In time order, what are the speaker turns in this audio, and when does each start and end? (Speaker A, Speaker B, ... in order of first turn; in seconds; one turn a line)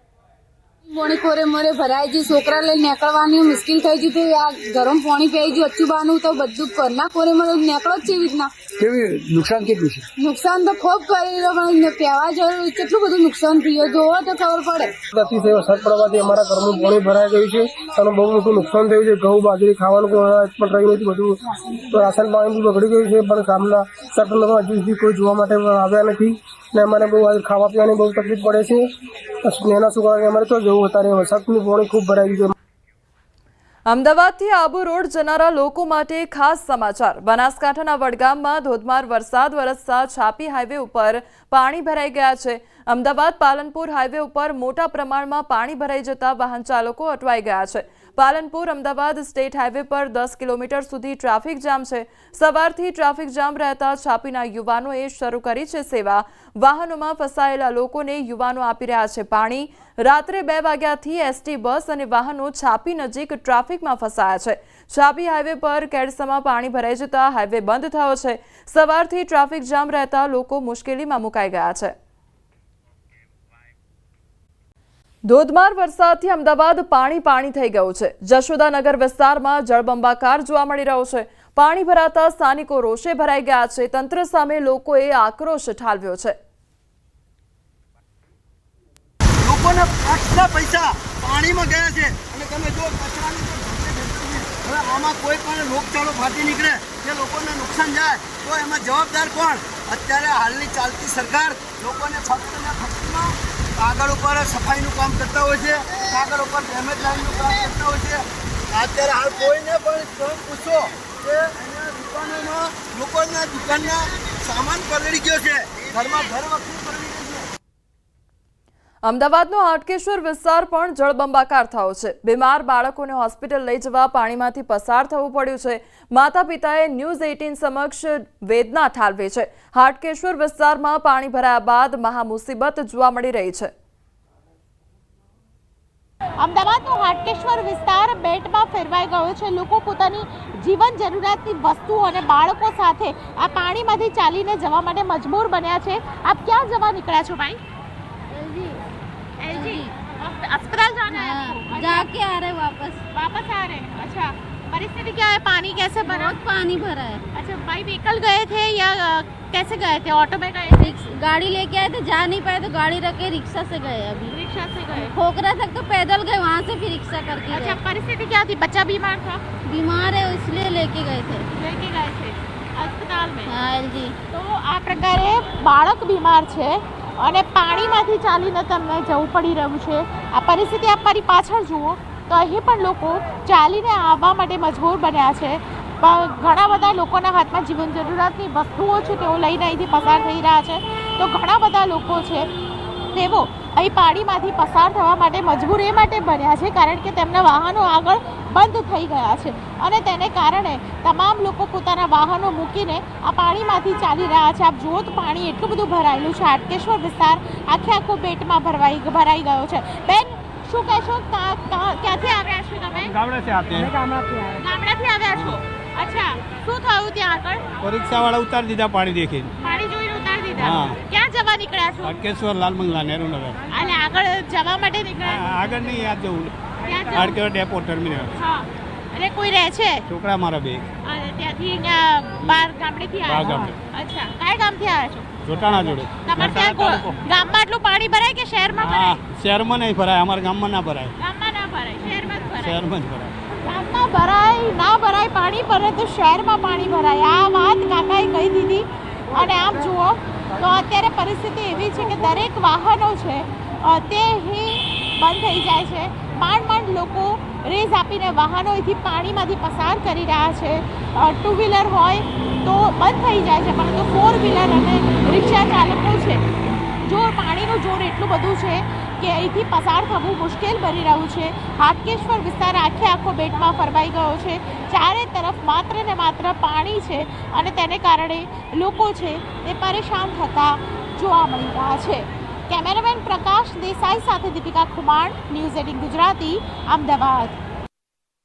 Speaker A: 0.9-8.6
Speaker A: 10.2-15.0
Speaker B: 15.1-28.9
Speaker B: 29.4-32.5
Speaker C: 33.9-71.9
Speaker C: 75.3-86.3
Speaker D: 89.4-117.5
Speaker C: 119.0-133.7
Speaker E: 136.4-147.6
Speaker F: 148.3-148.8
Speaker E: 149.4-152.1
Speaker F: 149.5-149.9
Speaker F: 151.1-153.0
Speaker E: 153.1-156.3
Speaker F: 156.0-157.2
Speaker E: 157.3-160.8
Speaker F: 160.8-164.3
Speaker E: 164.3-165.1
Speaker F: 164.9-167.8
Speaker E: 167.5-169.4
Speaker F: 169.6-171.4
Speaker E: 171.5-173.5
Speaker F: 173.5-174.2
Speaker E: 174.3-192.4
Speaker E: 193.1-213.1
Speaker G: 213.0-213.9
Speaker E: 214.6-217.7
Speaker G: 215.3-215.6
Speaker G: 217.8-219.5
Speaker E: 219.6-222.2
Speaker G: 220.6-221.0
Speaker G: 222.0-223.6
Speaker E: 223.7-225.4
Speaker G: 225.2-228.4
Speaker E: 226.9-227.4
Speaker E: 228.4-230.0
Speaker G: 230.1-230.8
Speaker E: 231.0-235.3
Speaker G: 233.2-233.8
Speaker G: 235.4-237.1
Speaker E: 236.2-239.2
Speaker G: 238.8-241.1
Speaker E: 241.2-242.8
Speaker G: 242.5-243.3
Speaker E: 243.7-266.4
Speaker E: 267.1-287.6